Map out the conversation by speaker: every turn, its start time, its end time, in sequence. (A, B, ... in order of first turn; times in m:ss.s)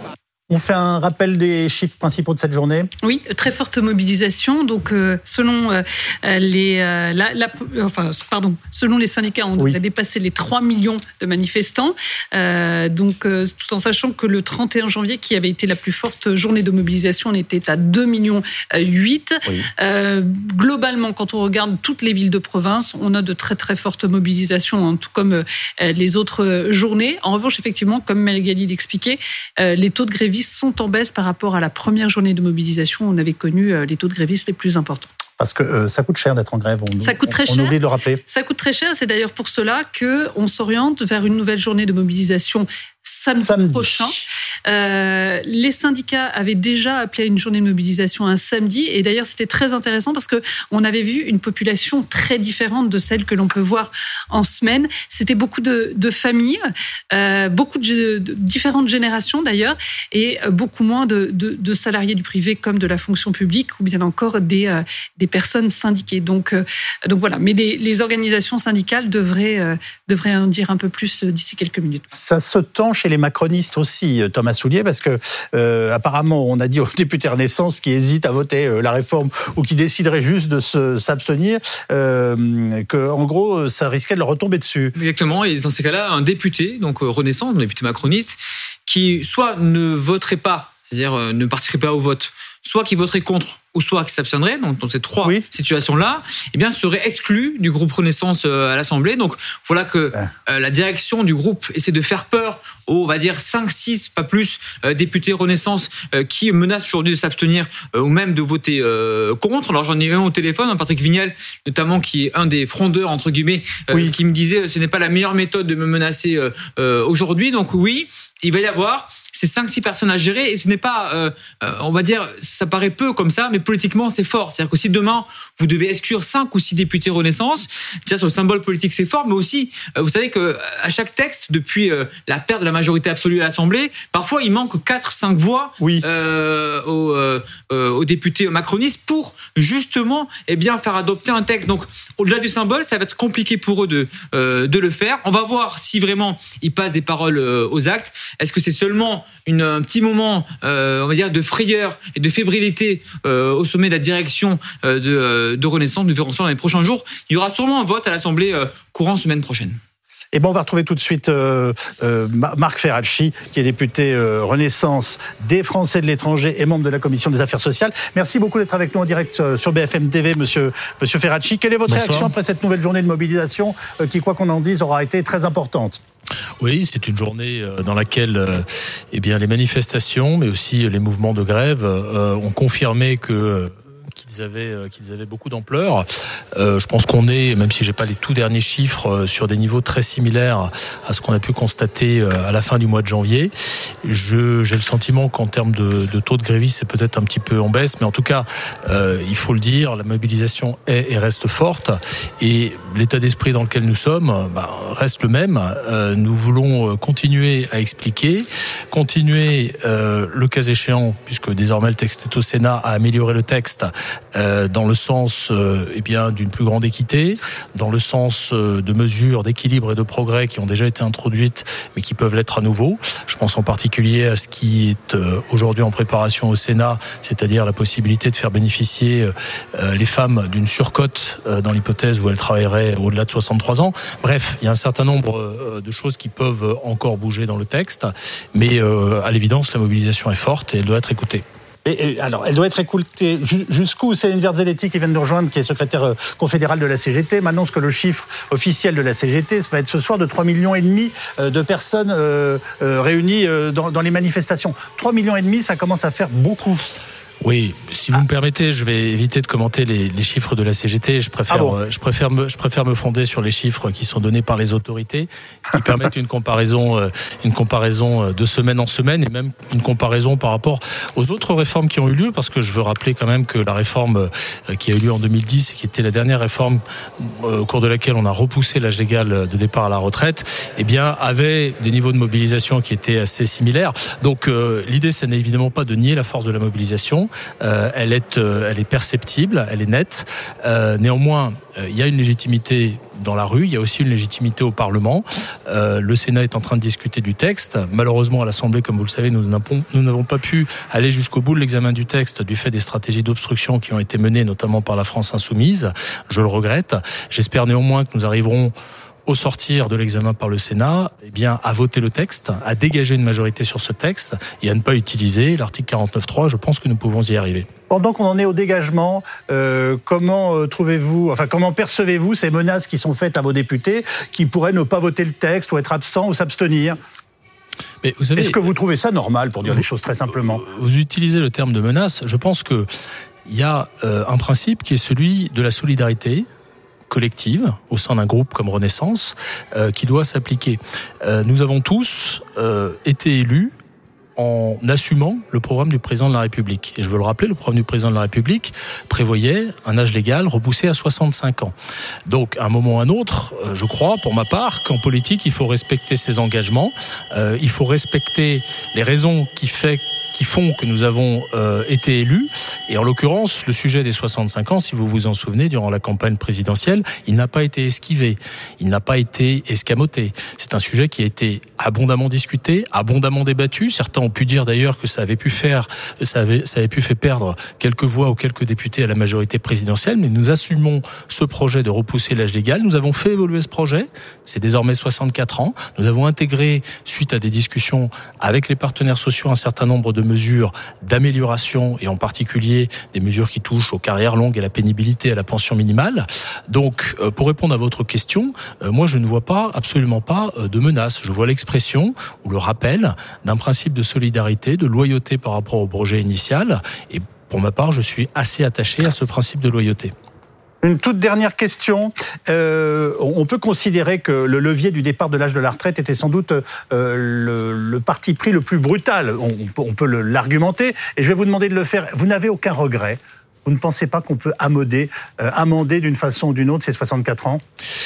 0:00.5-0:02.9 A
0:03.0-0:35.1 B
0:35.4-0:38.2 A
0:37.0-1:12.1 B
0:43.4-0:44.2 A
1:12.1-1:24.9 A
1:25.0-2:39.8 C
2:15.8-2:16.0 A
2:40.3-2:56.0 A
2:51.9-2:52.3 D
2:56.6-4:01.4 D
4:01.8-4:16.8 A
4:17.4-5:08.7 D
4:21.5-4:21.8 A
5:09.3-5:17.7 D
5:17.9-5:27.0 A
5:28.0-5:28.6 D
5:28.4-5:30.6 A
5:30.6-5:32.9 D
5:33.5-5:36.5 D
5:37.1-5:43.7 D
5:44.4-5:51.7 D
5:52.3-6:50.1 D
6:50.8-7:07.6 A